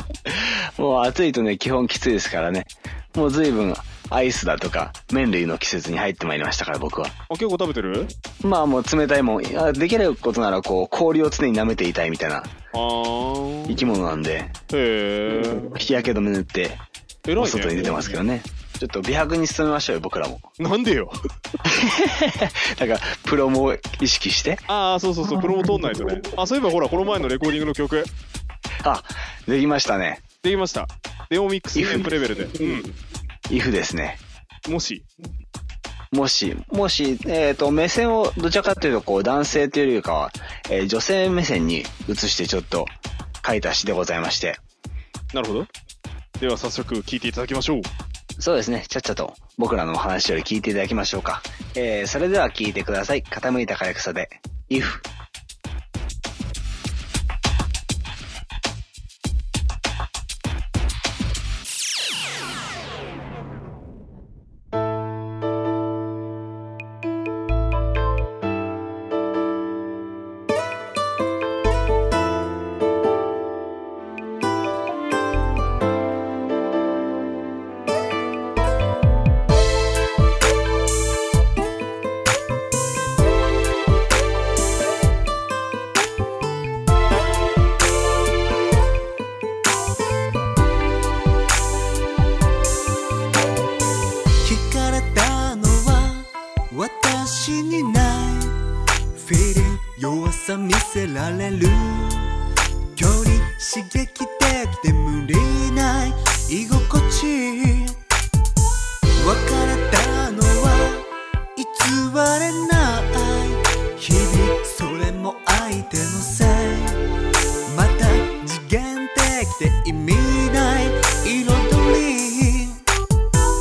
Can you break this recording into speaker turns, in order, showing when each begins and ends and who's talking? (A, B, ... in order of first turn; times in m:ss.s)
0:00.2-0:07.1 A
0:07.3-0:08.1 B
0:08.4-0:12.5 A
0:12.7-0:13.8 B
0:13.7-0:14.5 A
0:14.7-0:15.7 B
0:15.6-0:16.8 A
0:17.3-0:18.2 B
0:17.4-0:20.4 A
0:20.6-0:21.2 B
0:21.6-0:24.6 A
0:24.7-0:28.1 B
0:28.8-0:30.2 A
0:30.4-0:32.9 B
0:31.7-0:32.2 A
0:33.5-0:34.2 A
0:34.6-0:35.0 B
0:36.1-0:44.6 A
0:45.3-0:45.7 B
0:46.4-0:47.9 B
0:48.4-0:55.0 A
1:34.4-1:38.6 C
1:39.1-1:42.3 C
1:43.0-1:48.0 C
1:49.2-1:57.1 C
1:57.7-2:02.8 C